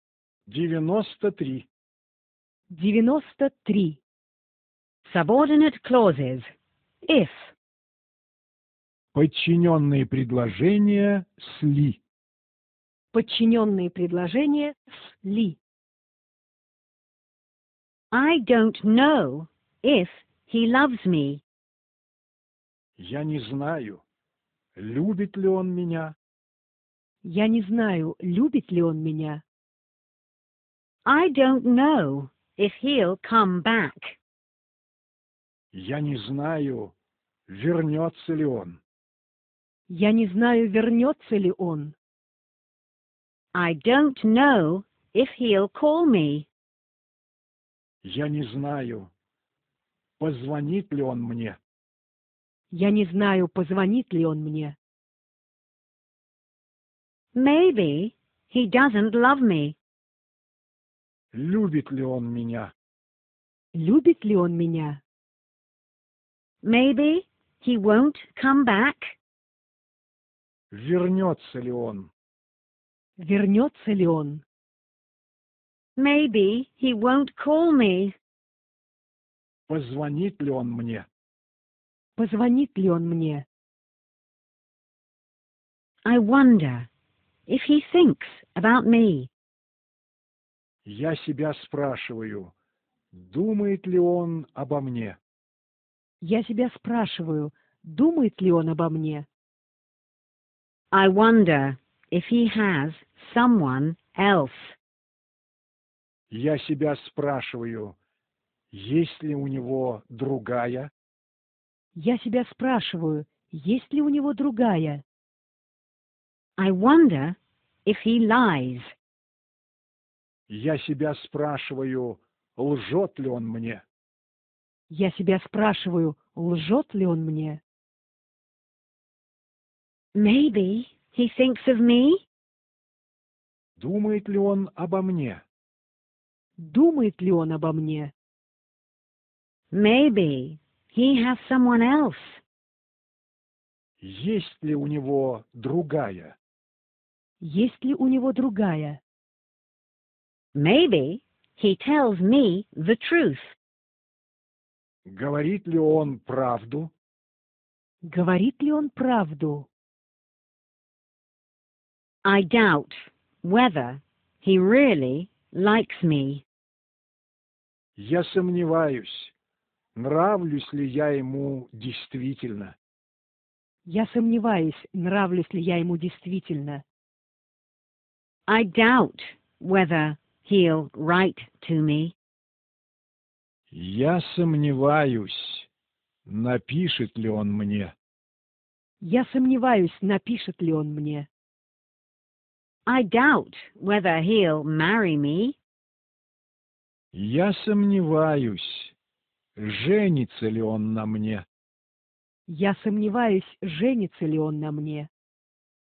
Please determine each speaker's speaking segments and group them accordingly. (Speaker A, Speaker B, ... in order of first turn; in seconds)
Speaker A: 0.5-1.7, 9.1-12.0, 23.0-24.0, 24.7-26.1, 35.7-36.9, 37.5-38.8, 48.0-49.1, 50.2-51.6, 61.3-62.7, 70.7-72.1, 79.7-81.1, 90.8-92.5, 93.1-95.2, 106.3-108.0, 108.7-110.9, 120.5-123.8, 133.8-135.4, 144.0-146.4, 155.1-156.9, 168.0-169.3, 169.9-172.7, 183.7-185.7, 186.2-187.9, 197.1-198.9, 199.6-201.4
Speaker B: 2.7-4.0, 7.0-7.5, 13.1-15.6, 27.2-29.4, 39.9-41.9, 52.7-54.8, 63.7-65.0, 73.2-74.4, 82.2-83.5, 96.2-99.2, 111.9-115.0, 124.9-127.6, 136.6-138.1, 147.4-149.0, 158.0-159.7, 173.8-176.8, 189.0-191.3, 202.5-205.1
Speaker C: 5.0-6.5, 18.1-21.4, 31.0-34.2, 43.5-46.5, 57.3-59.8, 66.6-69.2, 76.0-78.1, 86.0-86.9, 87.5-89.3, 100.9-104.8, 116.6-118.9, 130.1-132.2, 139.7-142.4, 150.5-153.6, 162.2-166.4, 178.5-182.1, 192.8-195.6